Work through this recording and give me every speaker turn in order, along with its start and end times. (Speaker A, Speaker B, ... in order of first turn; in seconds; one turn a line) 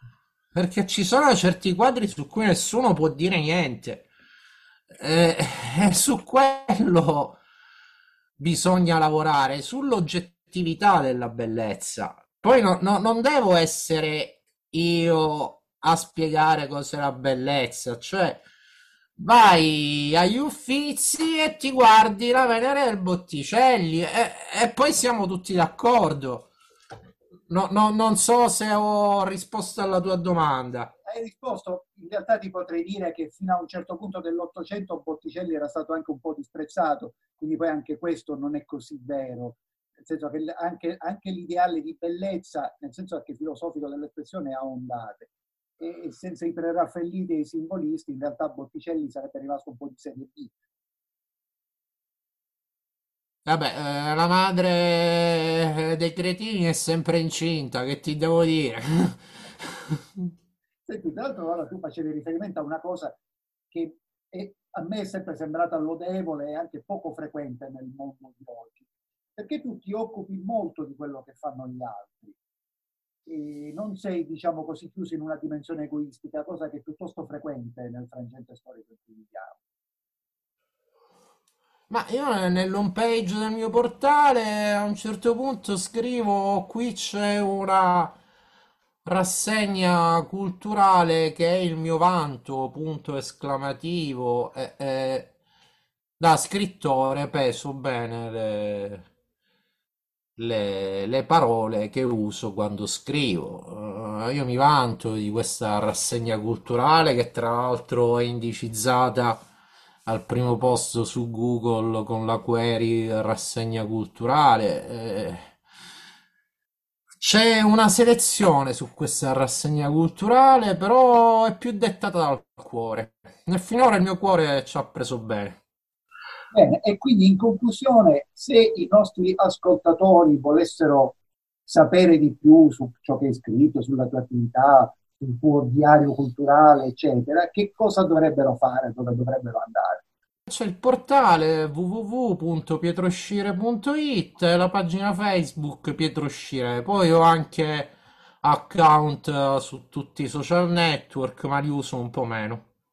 Speaker A: 0.5-4.1
Speaker A: 5.0-7.4
Speaker A: 8.4-18.4
Speaker A: 19.2-26.5
Speaker A: 27.5-30.9
Speaker B: 31.1-50.5
Speaker A: 53.4-60.3
Speaker B: 60.8-63.2
Speaker B: 63.7-72.4
Speaker B: 73.3-79.6
Speaker A: 81.9-88.1
Speaker A: 89.0-95.3
Speaker A: 96.2-99.0
Speaker A: 100.4-109.4
Speaker A: 110.0-115.5
Speaker A: 117.2-125.6
Speaker B: 126.5-140.0
Speaker A: 140.5-152.7